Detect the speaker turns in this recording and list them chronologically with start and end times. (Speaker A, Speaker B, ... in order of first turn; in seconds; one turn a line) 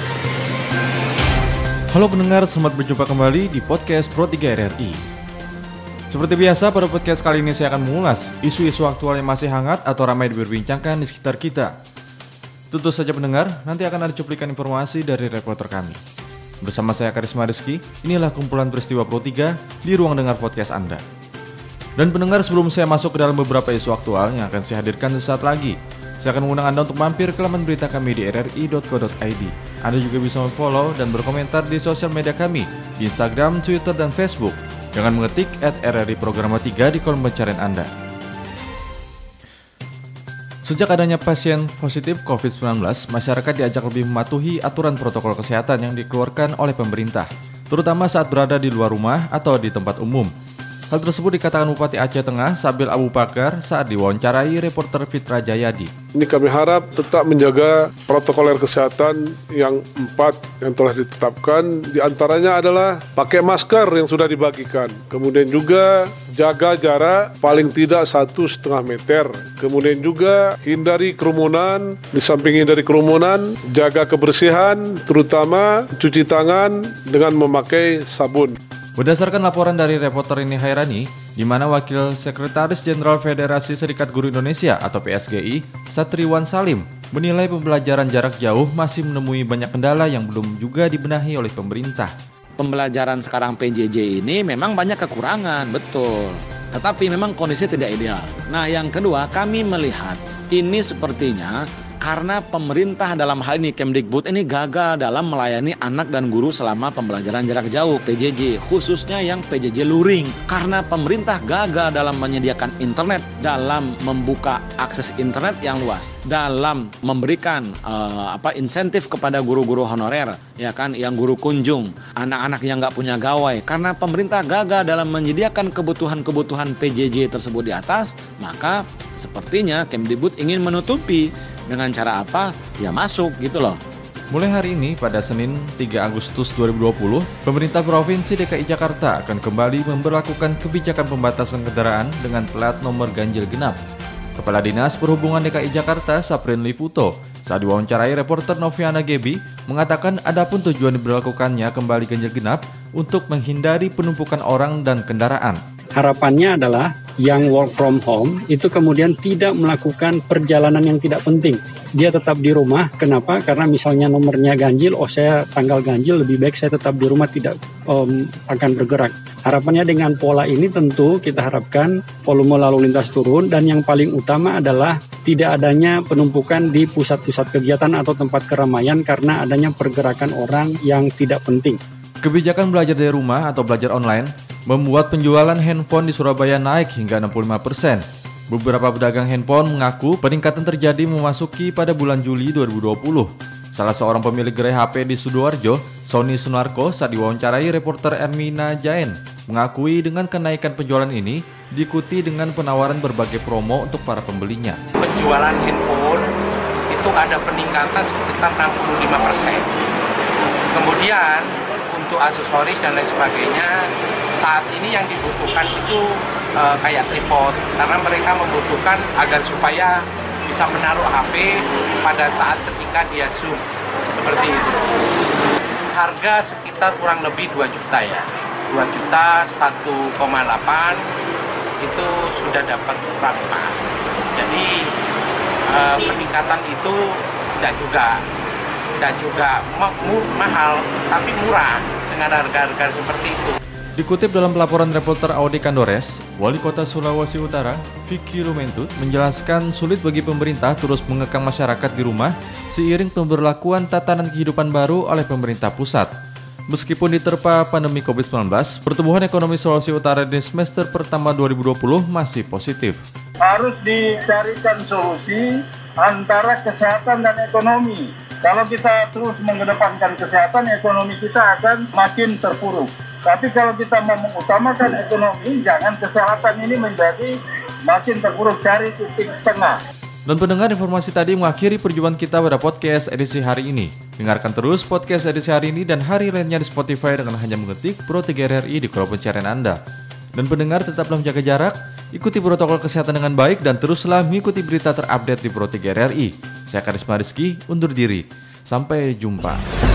Speaker A: 1.9-5.0
Speaker A: 6.1-11.8
Speaker A: 12.7-16.0
Speaker A: 16.6-21.0
Speaker A: 22.0-37.9
Speaker A: 40.6-50.3
Speaker A: 50.9-55.9
Speaker B: 56.1-78.6
Speaker A: 79.0-92.1
Speaker C: 92.6-133.8
Speaker A: 134.3-143.8
Speaker A: 144.4-155.6
Speaker D: 156.0-181.8
Speaker A: 182.2-204.8
Speaker E: 205.0-206.3
Speaker E: 206.9-209.7
Speaker E: 210.7-213.7
Speaker E: 214.3-216.0
Speaker E: 216.6-223.6
Speaker E: 224.2-224.8
Speaker E: 225.9-231.0
Speaker E: 231.8-233.8
Speaker E: 234.3-234.9
Speaker E: 235.7-237.0
Speaker E: 237.6-238.2
Speaker E: 239.0-243.6
Speaker A: 244.0-256.1
Speaker A: 256.7-263.0
Speaker F: 263.4-265.5
Speaker F: 266.0-277.4
Speaker F: 277.9-279.8
Speaker A: 280.3-289.8
Speaker A: 290.4-299.6